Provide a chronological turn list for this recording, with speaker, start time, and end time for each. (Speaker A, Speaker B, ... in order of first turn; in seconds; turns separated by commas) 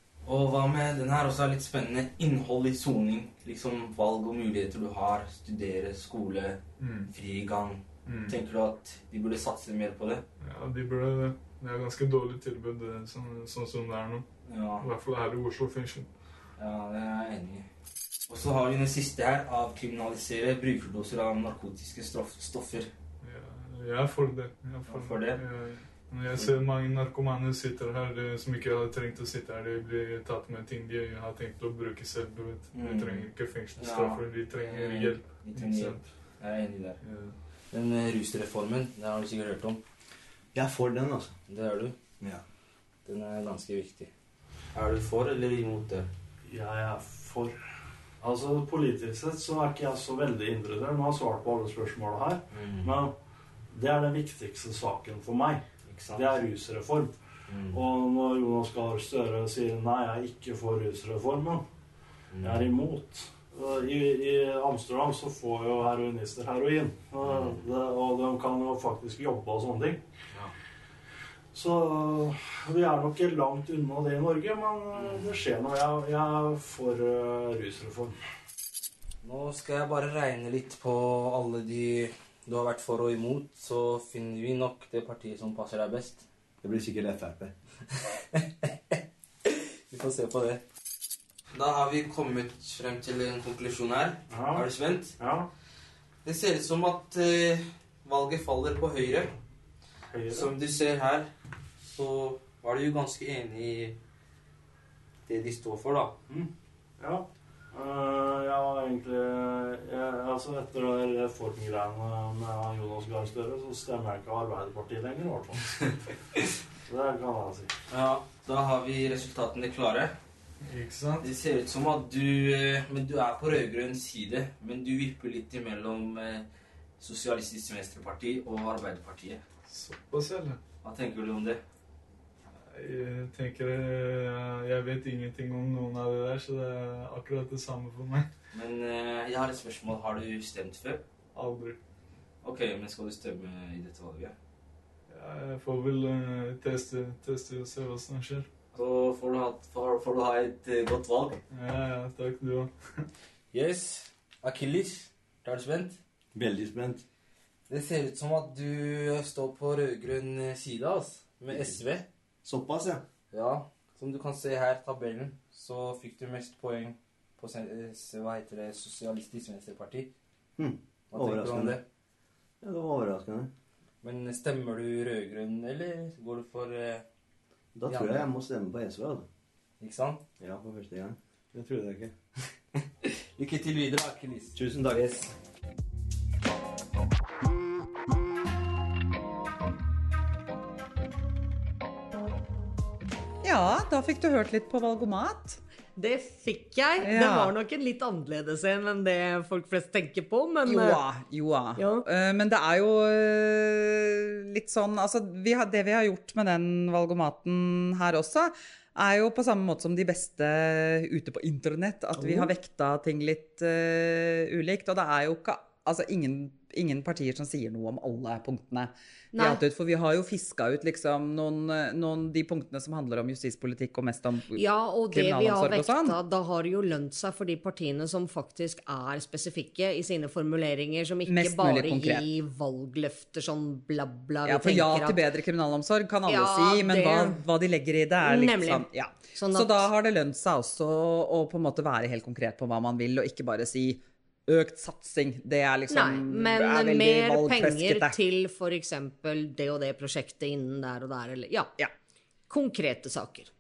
Speaker A: 0.2-6.6, Speaker B: 6.8-7.1, Speaker A: 7.1-10.2, Speaker B: 8.1-8.4, Speaker B: 10.4-14.2, Speaker A: 14.5-14.9, Speaker B: 14.8-16.1, Speaker A: 16.6-17.7, Speaker A: 18.3-22.9, Speaker B: 23.2-36.0, Speaker A: 24.9-25.4, Speaker A: 32.7-37.0, Speaker B: 37.0-37.4, Speaker A: 37.7-39.8, Speaker C: 40.5-41.4, Speaker A: 41.5-42.0, Speaker A: 43.1-44.1, Speaker A: 44.7-46.1, Speaker D: 46.5-47.5, Speaker D: 48.2-53.1, Speaker A: 52.5-52.9, Speaker D: 53.7-55.6, Speaker A: 55.9-56.4, Speaker D: 56.1-57.2, Speaker A: 57.5-57.8, Speaker D: 57.7-61.6, Speaker A: 62.3-62.6, Speaker D: 62.4-70.0, Speaker A: 67.2-67.6, Speaker D: 71.5-78.2, Speaker A: 75.0-75.3, Speaker A: 79.2-86.2, Speaker C: 86.6-87.5, Speaker A: 88.1-90.6, Speaker A: 91.5-95.2, Speaker D: 94.3-95.5, Speaker A: 96.2-99.3, Speaker D: 100.1-100.5, Speaker A: 100.3-101.3, Speaker A: 101.8-104.0, Speaker A: 105.3-106.2, Speaker D: 106.3-115.8, Speaker D: 116.9-117.7, Speaker A: 117.9-120.1, Speaker B: 120.6-121.3, Speaker A: 121.2-126.5, Speaker A: 127.0-129.4, Speaker B: 129.7-130.6, Speaker A: 130.8-131.6, Speaker B: 132.7-138.3, Speaker A: 138.5-141.0, Speaker B: 141.3-141.8, Speaker A: 142.4-144.3, Speaker B: 145.1-148.5, Speaker A: 148.7-151.4, Speaker B: 151.5-153.1, Speaker A: 153.5-156.0, Speaker C: 156.3-157.0, Speaker A: 157.7-162.1, Speaker C: 161.5-161.8, Speaker C: 162.4-163.0, Speaker A: 163.3-170.1, Speaker C: 170.6-171.8, Speaker A: 171.1-171.8, Speaker C: 172.6-173.5, Speaker A: 174.0-177.1, Speaker C: 177.8-179.3, Speaker A: 177.9-178.3, Speaker A: 179.8-180.2, Speaker C: 180.4-182.1, Speaker A: 182.8-185.3, Speaker C: 184.6-185.2, Speaker E: 193.4-195.6, Speaker F: 196.0-201.0, Speaker E: 197.0-197.5, Speaker E: 200.7-226.2, Speaker F: 201.8-202.0, Speaker F: 212.2-212.5, Speaker F: 219.3-219.6, Speaker F: 224.5-235.2, Speaker E: 231.3-232.3, Speaker E: 234.4-248.2, Speaker F: 236.3-237.4, Speaker F: 238.2-239.9, Speaker F: 245.9-251.7, Speaker F: 252.5-253.5